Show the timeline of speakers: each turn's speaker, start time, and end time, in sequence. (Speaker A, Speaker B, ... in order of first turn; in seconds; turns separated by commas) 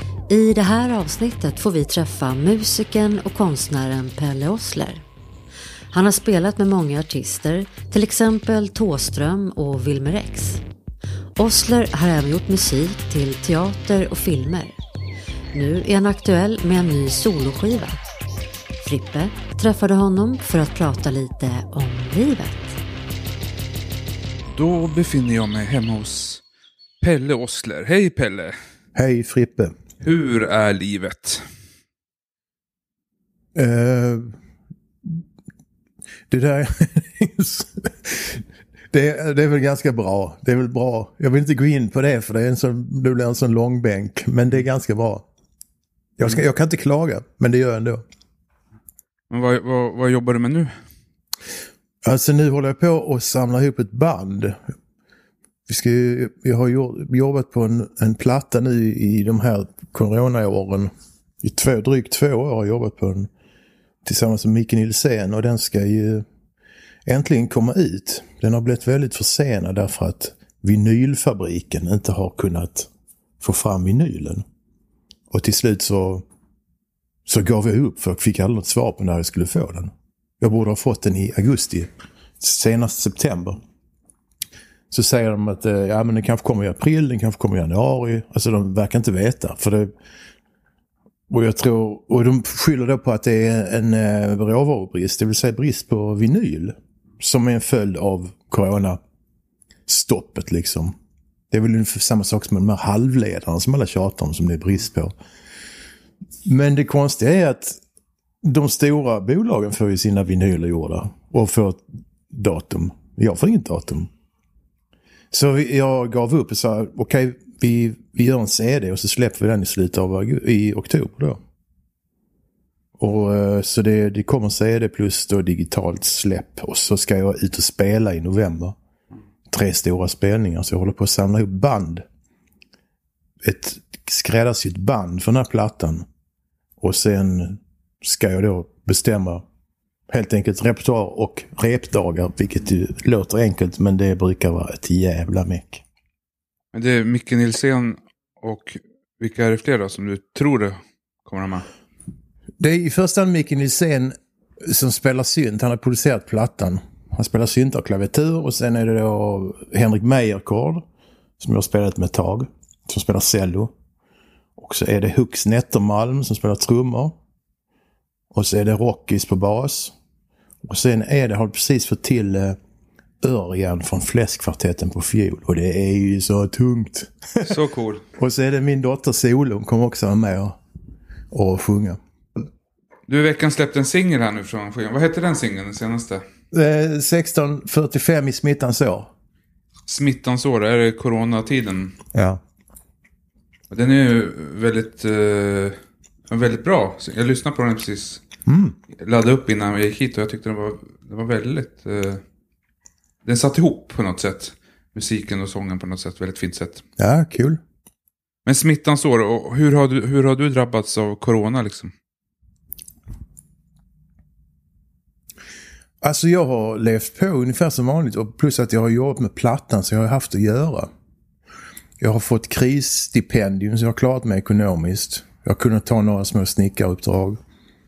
Speaker A: 0.3-5.0, Speaker A: 5.9-10.6, Speaker A: 11.4-14.8, Speaker A: 15.5-18.0, Speaker A: 18.8-22.8, Speaker B: 24.5-26.4, Speaker B: 27.0-28.6, Speaker C: 28.9-29.7, Speaker B: 30.0-31.4, Speaker C: 33.5-34.4, Speaker C: 36.3-45.2, Speaker C: 46.2-48.0, Speaker B: 49.3-50.8, Speaker C: 52.0-54.6, Speaker C: 55.7-60.9, Speaker C: 61.4-63.3, Speaker C: 64.0-66.2, Speaker C: 67.1-72.9, Speaker C: 73.4-74.4, Speaker C: 75.3-76.2, Speaker C: 77.3-83.6, Speaker C: 84.9-89.9, Speaker C: 91.3-99.0, Speaker C: 99.9-101.0, Speaker C: 101.5-105.1, Speaker C: 106.5-107.8, Speaker C: 108.4-114.1, Speaker C: 115.3-121.4, Speaker C: 123.0-128.8, Speaker C: 129.5-132.1, Speaker C: 133.4-136.1, Speaker C: 136.8-139.4, Speaker C: 140.1-145.8, Speaker B: 146.7-151.7, Speaker C: 152.6-160.8, Speaker C: 161.4-163.7, Speaker C: 164.6-167.2, Speaker C: 168.3-169.9, Speaker C: 170.6-172.6, Speaker C: 173.2-177.5, Speaker B: 177.4-178.1, Speaker C: 178.2-180.6, Speaker C: 181.3-182.0, Speaker B: 183.1-186.2, Speaker C: 186.5-189.1, Speaker B: 189.9-192.0, Speaker C: 192.1-192.4, Speaker B: 193.7-195.8, Speaker B: 196.3-198.2, Speaker C: 198.5-198.8, Speaker B: 198.9-202.2, Speaker B: 203.2-206.8, Speaker C: 207.0-207.6, Speaker B: 208.5-211.9, Speaker C: 216.0-220.9, Speaker C: 222.0-227.4